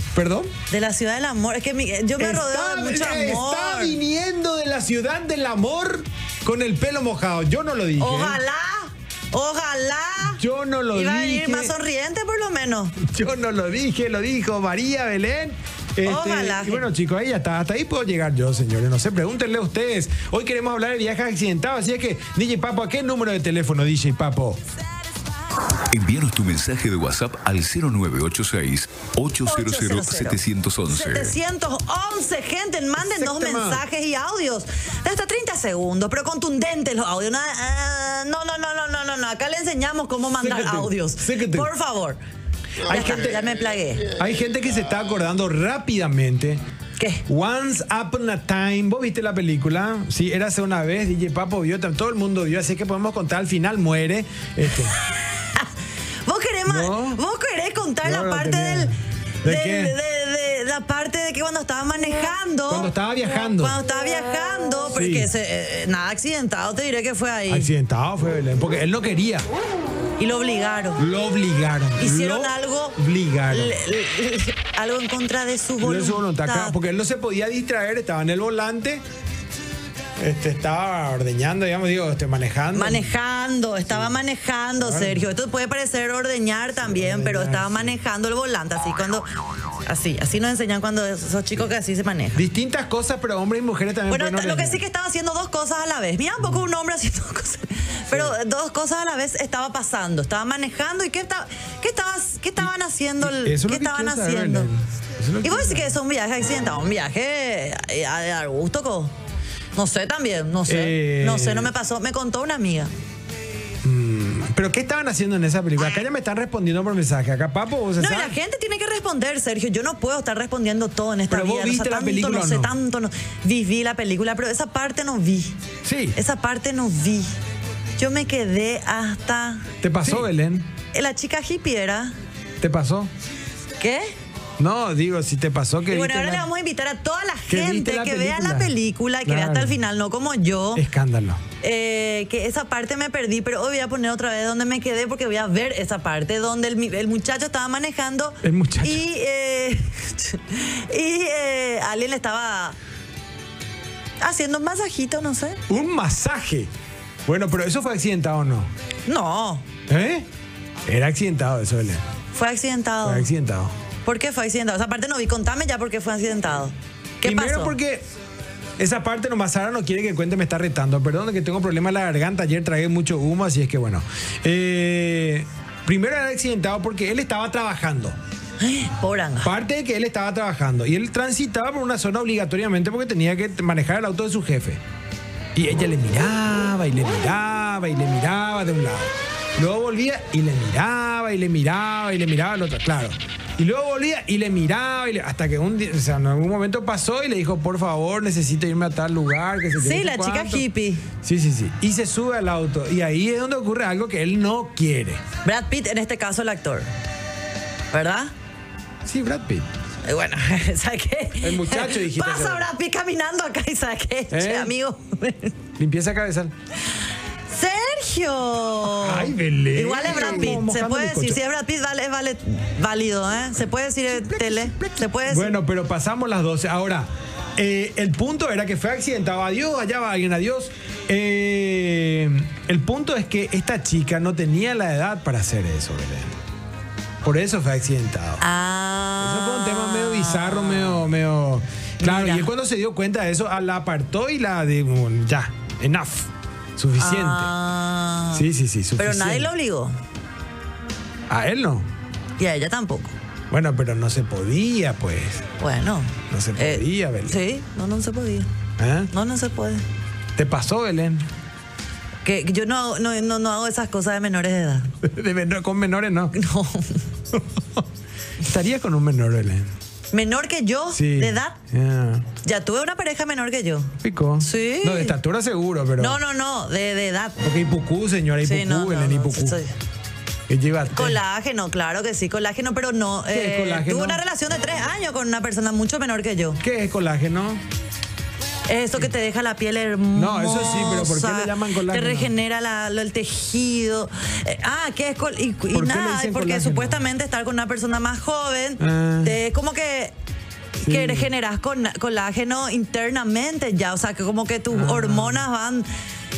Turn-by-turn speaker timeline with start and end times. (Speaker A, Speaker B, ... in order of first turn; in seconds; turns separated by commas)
Speaker A: 0.1-0.6, Speaker B: 0.7-4.0, Speaker A: 2.2-8.4, Speaker B: 8.0-10.4, Speaker A: 10.2-11.7, Speaker B: 10.9-13.0, Speaker A: 13.0-24.6, Speaker B: 16.0-16.9, Speaker C: 25.9-31.4, Speaker B: 29.4-42.2, Speaker A: 33.0-33.8, Speaker A: 40.4-41.7, Speaker A: 42.9-43.5, Speaker B: 42.9-44.1, Speaker A: 44.1-46.6, Speaker B: 47.0-47.2, Speaker A: 47.3-55.0, Speaker B: 55.0-55.7, Speaker B: 56.3-58.9, Speaker A: 56.7-57.2, Speaker A: 58.0-60.0, Speaker B: 59.5-62.9, Speaker A: 62.7-63.8, Speaker B: 63.6-67.7, Speaker A: 64.9-65.3, Speaker A: 67.5-69.5, Speaker B: 70.2-71.0, Speaker A: 71.0-73.8, Speaker B: 72.0-73.0, Speaker B: 73.5-76.8, Speaker A: 75.8-79.0, Speaker A: 80.2-83.1, Speaker B: 82.7-89.3, Speaker A: 84.8-85.3, Speaker A: 86.8-88.0, Speaker B: 89.9-92.5, Speaker A: 92.3-94.8, Speaker B: 94.1-104.7, Speaker A: 103.2-106.0, Speaker B: 105.4-109.1, Speaker B: 109.8-112.9, Speaker A: 110.7-111.7, Speaker A: 113.8-118.4, Speaker B: 118.0-125.6, Speaker A: 121.3-122.7, Speaker A: 125.8-126.2, Speaker B: 126.2-127.3, Speaker B: 128.0-130.2, Speaker A: 129.8-130.7, Speaker B: 130.9-132.1, Speaker A: 132.6-133.1, Speaker B: 133.8-134.1, Speaker A: 134.6-136.5, Speaker B: 135.9-140.8, Speaker A: 137.5-139.8, Speaker A: 140.8-141.4, Speaker B: 141.6-152.8, Speaker A: 148.4-149.0, Speaker B: 154.2-155.6, Speaker A: 155.7-156.7, Speaker A: 157.3-158.7, Speaker B: 159.1-159.7, Speaker A: 159.9-160.3, Speaker A: 160.9-162.0, Speaker B: 162.3-163.3, Speaker A: 163.0-163.7, Speaker B: 164.1-167.8, Speaker A: 167.2-168.0, Speaker A: 168.8-178.2, Speaker B: 178.6-179.5, Speaker A: 179.4-184.8, Speaker A: 185.6-200.7, Speaker B: 199.8-201.1, Speaker A: 201.2-205.2, Speaker B: 205.4-206.9, Speaker B: 207.9-208.3, Speaker A: 209.1-209.7, Speaker B: 210.0-215.6, Speaker A: 211.4-212.6, Speaker A: 214.3-214.7, Speaker A: 215.8-216.5, Speaker B: 217.5-225.6, Speaker A: 218.9-221.4, Speaker A: 224.1-236.3, Speaker A: 237.2-238.4, Speaker B: 238.4-241.1, Speaker A: 239.2-247.5, Speaker B: 242.0-242.5, Speaker B: 247.0-250.0, Speaker A: 248.3-249.5, Speaker A: 251.3-251.9, Speaker B: 252.4-253.2, Speaker A: 253.5-255.5, Speaker B: 255.6-258.5, Speaker A: 256.3-257.4, Speaker A: 258.8-259.1, Speaker B: 259.1-259.9, Speaker A: 260.4-261.3, Speaker B: 262.2-264.9, Speaker A: 265.0-266.4, Speaker B: 266.3-267.1, Speaker A: 267.3-267.8, Speaker A: 268.4-269.7, Speaker B: 270.1-271.6, Speaker A: 270.9-272.3, Speaker B: 272.4-275.1, Speaker A: 274.0-276.2, Speaker B: 276.0-277.4, Speaker A: 277.4-279.6, Speaker B: 278.4-279.8, Speaker A: 280.5-281.2, Speaker B: 280.9-286.6, Speaker A: 283.3-284.2, Speaker A: 286.6-287.6, Speaker B: 288.7-300.1, Speaker A: 290.1-292.3, Speaker A: 295.7-297.0, Speaker A: 298.8-299.4, Speaker A: 300.8-301.3, Speaker B: 300.8-305.9, Speaker A: 304.7-305.4